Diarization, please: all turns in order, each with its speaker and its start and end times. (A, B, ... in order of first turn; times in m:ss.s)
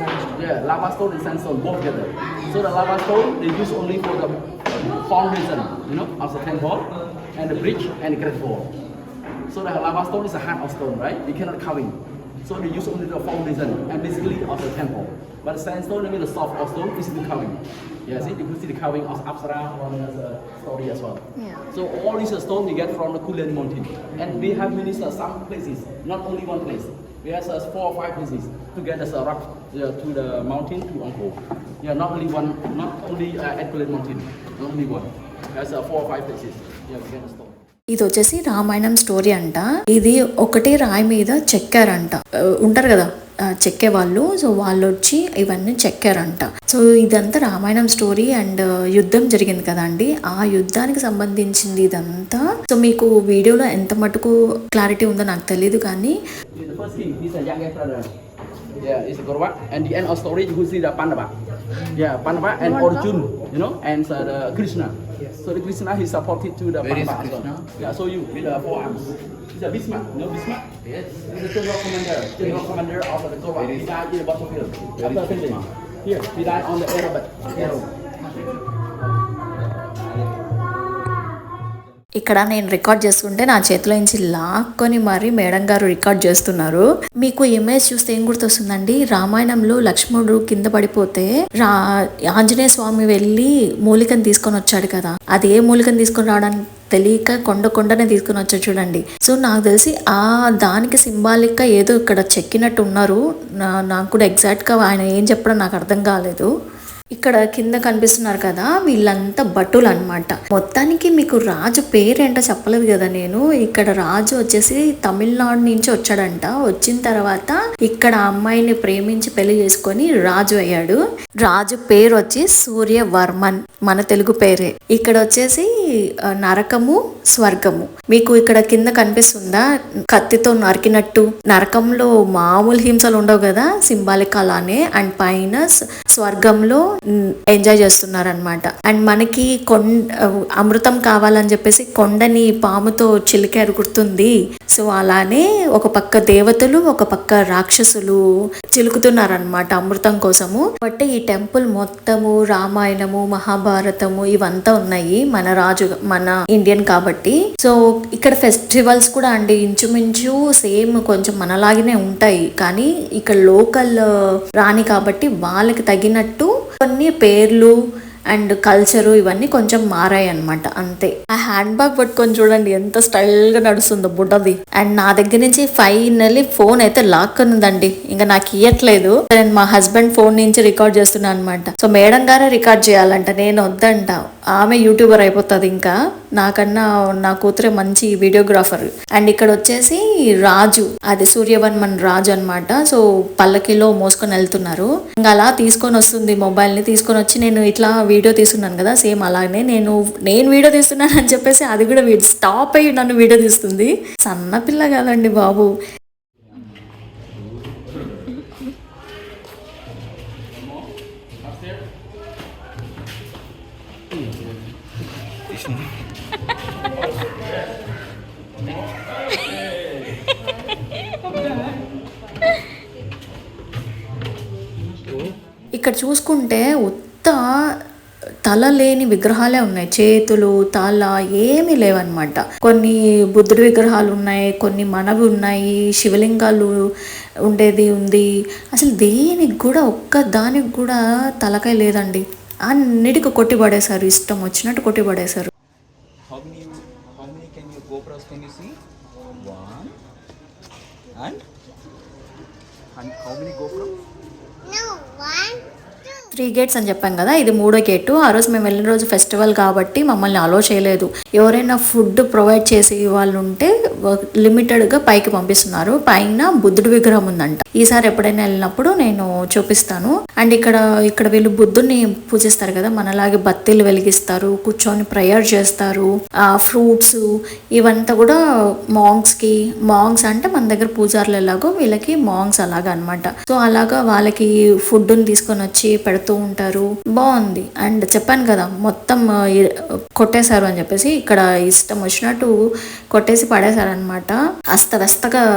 0:00.3-0:08.7 A
0:09.5-0:37.6 A
0:21.4-0:21.6 B
0:37.9-0:56.2 B
0:56.5-0:58.1 A
0:58.8-1:01.3 A
1:01.9-1:17.8 A
1:02.6-1:03.1 B
1:06.8-1:07.8 C
1:12.4-1:12.7 C
1:13.6-1:13.9 C
1:15.0-1:15.7 C
1:17.5-1:17.8 C
1:22.2-1:31.8 B
1:32.3-1:43.2 B
1:43.7-1:46.5 B
1:47.2-2:05.7 B
2:06.4-2:16.8 B
2:17.5-2:19.9 B
2:20.6-2:28.2 B
2:28.7-2:44.0 B
2:44.6-2:47.7 B
2:48.3-3:25.7 B
3:30.5-3:30.9 A
3:31.4-3:31.9 A
3:34.1-3:34.7 A
3:35.5-3:35.8 C
3:38.7-3:40.2 A
3:45.8-3:47.4 B
3:48.4-3:56.7 B
3:57.5-4:05.5 B
4:06.3-4:08.8 C
4:09.4-4:09.9 C
4:13.0-4:13.9 C
4:16.3-4:37.2 B
4:37.8-4:38.4 B
4:38.9-4:52.5 B
4:53.1-4:55.4 B